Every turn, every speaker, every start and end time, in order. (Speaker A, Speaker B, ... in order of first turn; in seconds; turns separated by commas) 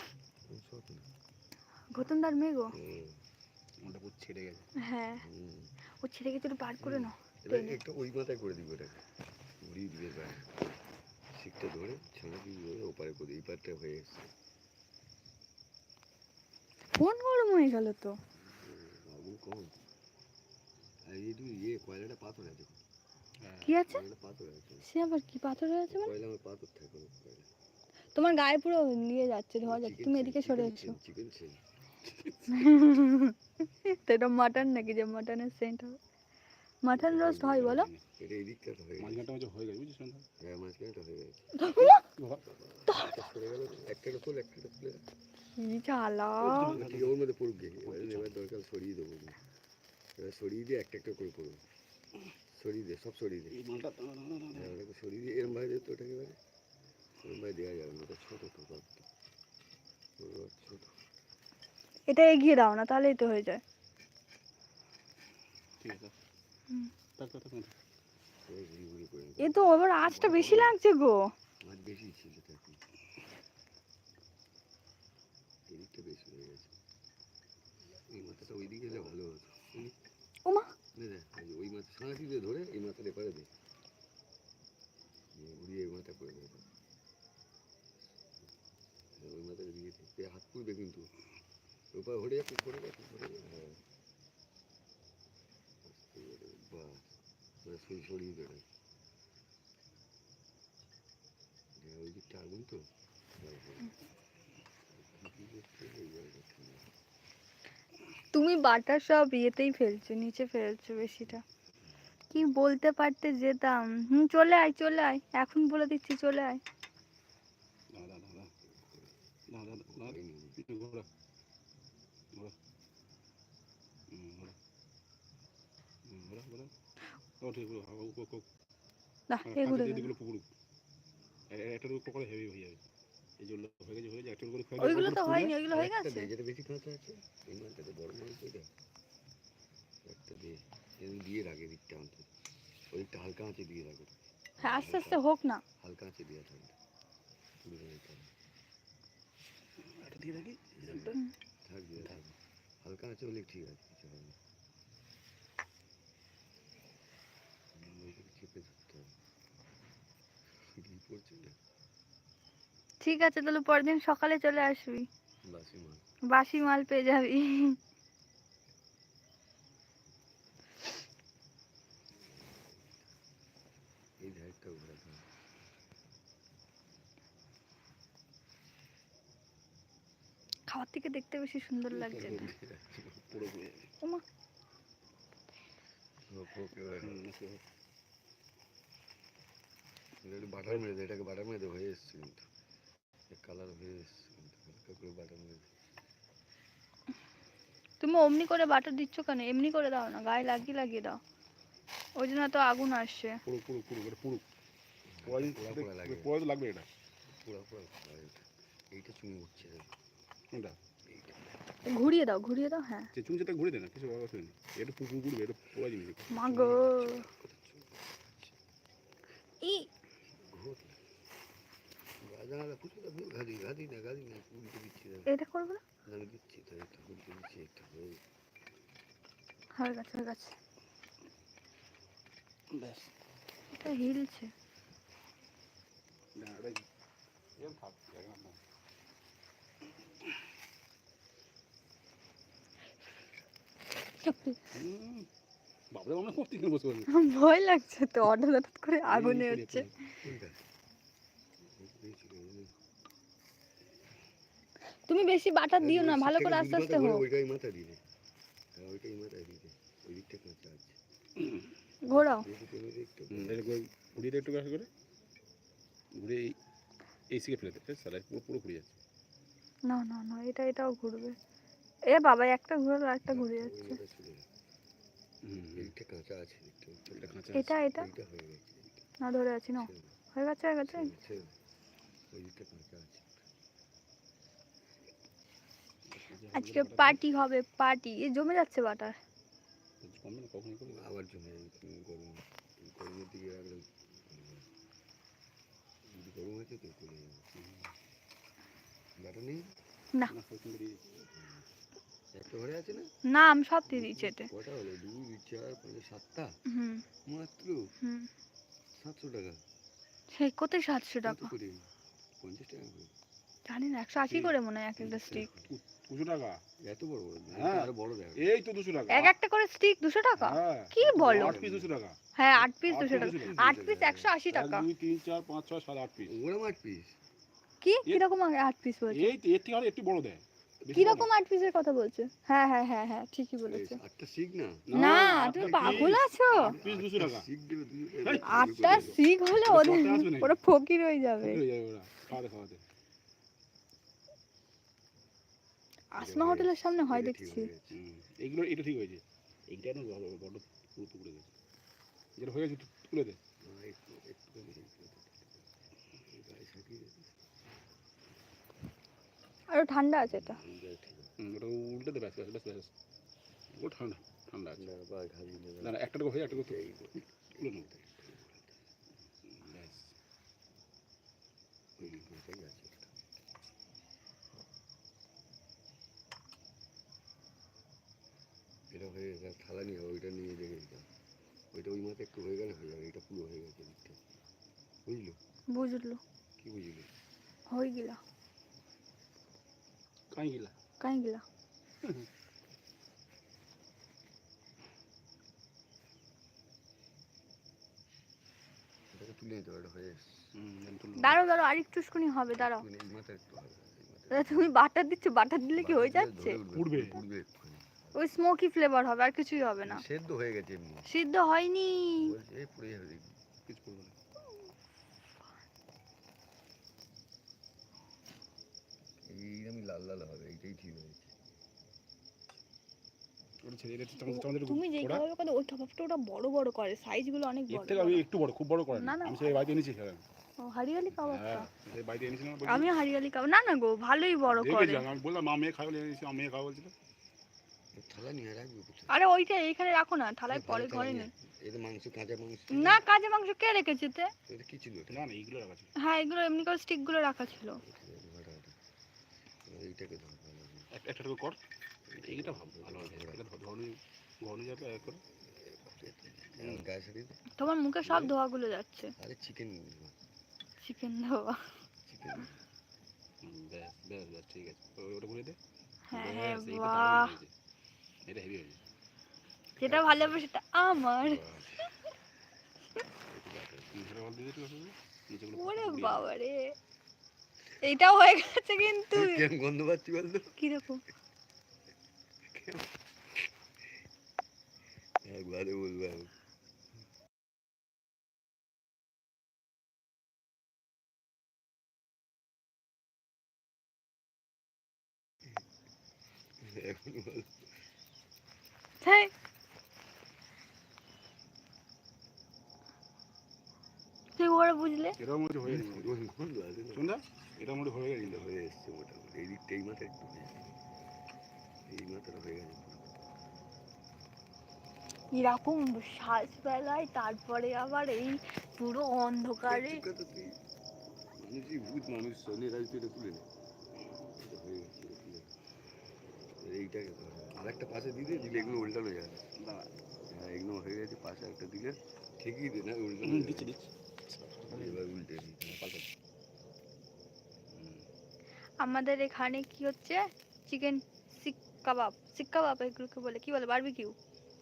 Speaker A: 0.5-1.1, Speaker B: 1.9-2.8, Speaker A: 2.7-3.2, Speaker C: 3.8-4.7, Speaker B: 4.8-5.3, Speaker A: 5.2-5.7, Speaker B: 6.0-7.8, Speaker A: 6.8-9.0, Speaker A: 9.6-10.8, Speaker A: 11.3-14.3, Speaker B: 16.9-18.2, Speaker A: 18.4-19.7, Speaker A: 21.0-22.8, Speaker C: 23.4-23.8, Speaker B: 23.6-24.0, Speaker A: 23.8-24.9, Speaker B: 24.8-26.1, Speaker A: 25.9-27.5, Speaker B: 28.1-31.0, Speaker A: 29.6-31.6, Speaker C: 32.0-32.7, Speaker B: 32.5-36.0, Speaker B: 36.8-37.9, Speaker A: 36.9-39.2, Speaker C: 37.5-38.0, Speaker C: 39.0-40.2, Speaker A: 40.4-41.5, Speaker B: 41.5-42.0, Speaker C: 42.0-42.4, Speaker A: 42.5-45.0, Speaker B: 42.9-43.1, Speaker B: 45.5-46.8, Speaker C: 46.4-47.2, Speaker A: 46.7-49.4, Speaker C: 47.8-48.3, Speaker A: 50.2-51.6, Speaker A: 52.5-53.6, Speaker C: 53.5-54.7, Speaker A: 54.5-56.4, Speaker A: 57.2-59.1, Speaker A: 60.2-61.0, Speaker B: 62.1-63.6, Speaker C: 65.8-66.1, Speaker C: 67.2-67.7, Speaker A: 68.5-70.8, Speaker B: 69.4-71.3, Speaker A: 71.6-72.8, Speaker A: 75.7-76.8, Speaker A: 77.9-80.0, Speaker B: 80.5-80.7, Speaker A: 81.0-83.5, Speaker A: 85.3-86.7, Speaker A: 89.1-91.1, Speaker A: 91.9-93.8, Speaker A: 95.8-97.1, Speaker A: 97.6-98.7, Speaker A: 101.8-104.0, Speaker A: 104.9-106.9, Speaker B: 108.3-111.4, Speaker B: 112.3-116.6, Speaker C: 117.9-118.5, Speaker C: 119.5-121.1, Speaker A: 119.8-120.6, Speaker C: 124.1-124.6, Speaker C: 126.1-126.7, Speaker C: 127.4-128.5, Speaker B: 129.3-130.1, Speaker C: 129.4-130.5, Speaker C: 131.5-132.8, Speaker C: 133.4-135.6, Speaker B: 134.8-136.3, Speaker A: 135.7-138.7, Speaker A: 140.0-142.3, Speaker A: 142.9-145.2, Speaker B: 144.6-145.6, Speaker A: 145.8-146.8, Speaker A: 147.6-148.3, Speaker C: 149.8-151.2, Speaker A: 150.8-154.4, Speaker A: 157.7-159.1, Speaker A: 160.5-161.6, Speaker B: 163.0-165.1, Speaker A: 165.5-166.0, Speaker B: 166.3-167.8, Speaker A: 172.2-173.1, Speaker A: 174.2-175.3, Speaker B: 180.7-182.5, Speaker A: 181.9-183.5, Speaker C: 183.3-183.8, Speaker A: 186.3-187.2, Speaker C: 187.0-187.6, Speaker A: 190.2-192.5, Speaker A: 193.3-195.7, Speaker B: 198.0-201.2, Speaker B: 202.2-203.4, Speaker C: 203.5-204.4, Speaker A: 205.1-206.3, Speaker C: 205.2-206.9, Speaker A: 207.3-209.9, Speaker A: 211.1-211.6, Speaker B: 211.9-213.1, Speaker C: 213.1-217.0, Speaker B: 216.3-217.3, Speaker A: 216.7-218.6, Speaker B: 219.6-219.9, Speaker A: 220.3-221.0, Speaker A: 222.2-225.3, Speaker B: 225.3-225.8, Speaker A: 226.1-228.2, Speaker B: 229.8-230.6, Speaker C: 232.7-233.1, Speaker B: 233.7-234.5, Speaker C: 236.4-236.9, Speaker C: 237.6-238.6, Speaker B: 244.2-244.6, Speaker C: 244.7-245.3, Speaker C: 245.9-247.1, Speaker B: 247.1-249.9, Speaker C: 249.1-249.9, Speaker A: 250.2-250.6, Speaker A: 251.6-252.7, Speaker B: 255.1-257.2, Speaker A: 255.8-258.0, Speaker A: 258.7-261.0, Speaker C: 261.4-261.7, Speaker B: 262.1-262.5, Speaker A: 262.1-263.8, Speaker C: 263.3-264.9, Speaker C: 266.2-266.6, Speaker C: 267.3-268.9, Speaker B: 269.9-271.4, Speaker B: 272.1-274.0, Speaker A: 273.3-274.5, Speaker C: 275.4-275.9, Speaker A: 275.8-279.1, Speaker C: 277.1-277.7, Speaker B: 277.6-278.1, Speaker B: 279.2-281.1, Speaker A: 279.8-280.1, Speaker A: 280.9-281.5, Speaker A: 282.3-283.5, Speaker C: 286.1-287.2, Speaker B: 286.5-289.2, Speaker C: 290.0-291.1, Speaker A: 290.9-294.7, Speaker A: 296.1-297.5, Speaker C: 297.6-297.9, Speaker A: 299.2-299.7, Speaker C: 300.3-301.0, Speaker A: 301.2-301.7, Speaker A: 302.3-303.1, Speaker B: 303.3-304.5, Speaker A: 303.9-306.6, Speaker B: 306.7-307.0, Speaker A: 307.3-307.8, Speaker B: 308.0-308.3, Speaker A: 308.9-309.6, Speaker B: 310.3-311.5, Speaker A: 311.2-311.9, Speaker A: 312.4-313.1, Speaker B: 313.7-315.5, Speaker C: 314.3-314.5, Speaker A: 315.0-315.7, Speaker C: 315.3-316.6, Speaker A: 316.8-318.5, Speaker C: 317.5-319.3, Speaker B: 319.1-321.5, Speaker C: 320.4-323.6, Speaker A: 321.1-321.9, Speaker B: 322.4-324.9, Speaker A: 323.1-324.4, Speaker C: 324.5-326.3, Speaker A: 326.2-327.2, Speaker B: 327.8-329.4, Speaker C: 329.1-331.3, Speaker A: 330.8-331.2, Speaker B: 330.9-334.0, Speaker A: 333.7-339.2, Speaker C: 334.9-337.5, Speaker B: 334.9-336.7, Speaker C: 338.2-340.6, Speaker B: 338.4-341.6, Speaker C: 341.4-342.8, Speaker B: 346.1-347.7, Speaker A: 346.2-348.0, Speaker C: 347.9-351.5, Speaker C: 352.4-353.4, Speaker A: 353.6-355.7, Speaker A: 356.2-357.3, Speaker B: 359.7-360.6, Speaker A: 360.2-361.3, Speaker C: 361.4-362.9, Speaker C: 363.7-364.9, Speaker A: 364.8-368.8, Speaker C: 365.8-366.8, Speaker C: 367.6-367.9, Speaker C: 369.5-370.1, Speaker A: 372.0-373.2, Speaker A: 378.9-381.1, Speaker A: 381.7-384.2, Speaker A: 385.1-385.4, Speaker B: 385.7-386.2, Speaker A: 386.6-387.1, Speaker B: 387.7-388.2, Speaker C: 390.3-390.7, Speaker B: 391.0-391.4, Speaker C: 392.0-392.3, Speaker A: 399.1-400.5, Speaker C: 400.6-401.4, Speaker B: 401.2-402.9, Speaker A: 402.5-404.7, Speaker B: 404.3-406.6, Speaker A: 405.8-408.2, Speaker C: 406.7-407.2, Speaker B: 408.1-410.0, Speaker A: 409.9-411.1, Speaker B: 411.1-412.3, Speaker A: 412.2-413.3, Speaker C: 413.7-414.1, Speaker A: 419.2-421.3, Speaker C: 423.6-425.2, Speaker B: 424.3-428.2, Speaker C: 427.7-430.2, Speaker B: 428.9-429.6, Speaker B: 430.6-431.7, Speaker C: 431.1-432.9, Speaker B: 432.7-435.1, Speaker C: 434.5-436.9, Speaker A: 437.9-439.1, Speaker B: 439.1-441.3, Speaker A: 440.5-443.0, Speaker B: 442.7-444.3, Speaker A: 444.5-445.2, Speaker C: 445.1-445.9, Speaker B: 446.0-447.8, Speaker A: 447.8-448.8, Speaker A: 449.6-450.9, Speaker C: 450.9-451.6, Speaker A: 452.1-453.5, Speaker C: 452.2-455.2, Speaker A: 455.3-457.4, Speaker C: 456.6-456.9, Speaker B: 457.6-459.1, Speaker C: 458.1-458.3, Speaker A: 459.2-460.2, Speaker B: 460.8-461.7, Speaker A: 462.1-462.6, Speaker C: 463.4-465.6, Speaker B: 466.1-467.4, Speaker C: 466.1-467.5, Speaker C: 468.3-468.8, Speaker B: 469.8-471.4, Speaker A: 469.8-470.4, Speaker A: 471.2-471.9, Speaker A: 473.1-474.2, Speaker C: 473.9-476.3, Speaker B: 475.6-476.7, Speaker B: 477.8-479.4, Speaker A: 479.1-480.6, Speaker B: 480.6-481.0, Speaker A: 482.4-483.5, Speaker A: 485.2-486.3, Speaker A: 496.6-497.7, Speaker B: 499.0-499.3, Speaker B: 504.4-505.2, Speaker C: 505.2-506.2, Speaker A: 505.7-507.1, Speaker C: 506.9-508.5, Speaker A: 508.2-510.8, Speaker A: 511.9-513.2, Speaker B: 515.3-520.0, Speaker A: 519.7-520.6, Speaker A: 521.3-523.5, Speaker A: 524.2-525.5, Speaker A: 526.5-529.4, Speaker C: 528.3-528.9, Speaker C: 529.6-529.9, Speaker A: 530.2-533.7, Speaker C: 533.2-536.1, Speaker A: 534.5-535.9, Speaker C: 537.7-538.1, Speaker B: 538.8-544.2